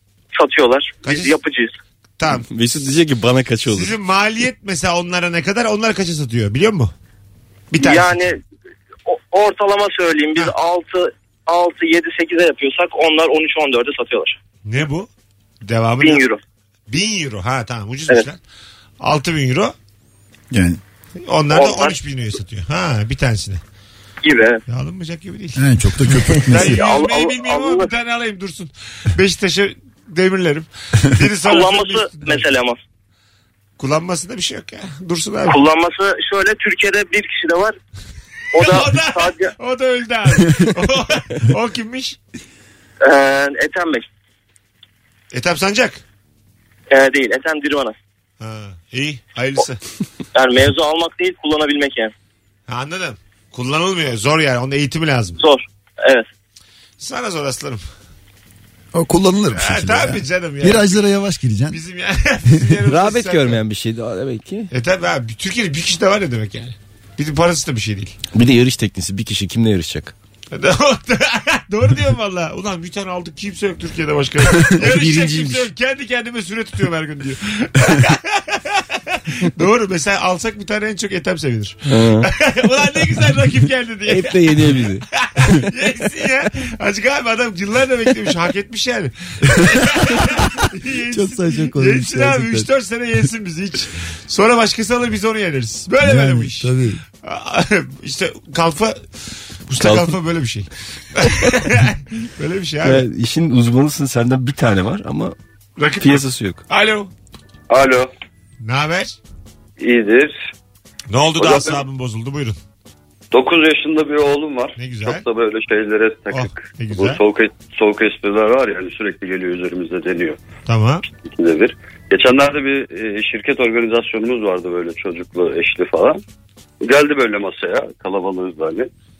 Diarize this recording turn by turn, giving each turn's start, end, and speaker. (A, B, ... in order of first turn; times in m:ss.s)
0:00.3-0:01.8 A
0:01.0-0:01.3 B
0:02.2-0:02.4 B
0:02.3-0:03.9 C
0:03.7-0:06.9 B
0:07.7-0:08.2 B
0:07.7-0:08.4 A
0:09.1-0:14.4 A
0:14.6-0:15.1 B
0:15.6-0:16.2 B
0:16.0-0:16.4 A
0:16.9-0:18.4 B
0:19.0-0:19.7 B
0:20.5-0:20.8 D
0:21.2-0:23.6 B
0:21.5-0:22.0 A
0:24.2-0:24.6 A
0:24.7-0:25.6 B
0:25.6-0:26.8 D
0:26.5-0:32.5 B
0:26.6-0:27.9 A
0:31.4-0:32.8 A
0:33.8-0:35.6 B
0:35.4-0:37.8 A
0:38.5-0:39.5 A
0:38.6-0:42.2 B
0:43.0-0:44.0 A
0:45.3-0:46.0 B
0:46.9-0:47.9 A
0:48.4-0:49.8 B
0:50.3-0:52.1 A
0:52.7-0:55.4 B
0:55.4-0:56.3 A
0:57.0-0:57.8 B
0:58.9-1:01.8 D
0:59.5-1:01.0 B
1:01.7-1:03.6 B
1:02.9-1:04.7 C
1:04.7-1:08.2 B
1:08.3-1:10.1 C
1:10.5-1:39.0 B
1:14.7-1:15.6 C
1:21.8-1:22.3 C
1:24.1-1:25.0 C
1:31.1-1:32.7 D
1:36.0-1:37.0 D
1:39.7-1:43.0 B
1:39.8-1:40.1 C
1:42.8-1:45.3 C
1:45.8-1:47.1 B
1:45.9-1:46.6 C
1:47.7-1:48.1 E
1:48.6-1:49.2 B
1:49.8-1:50.3 E
1:51.1-1:52.6 B
1:51.4-1:51.8 E
1:53.3-2:00.4 E
1:54.8-1:55.2 B
1:56.3-1:57.2 B
2:00.7-2:01.0 B
2:01.2-2:06.2 E
2:06.8-2:08.9 E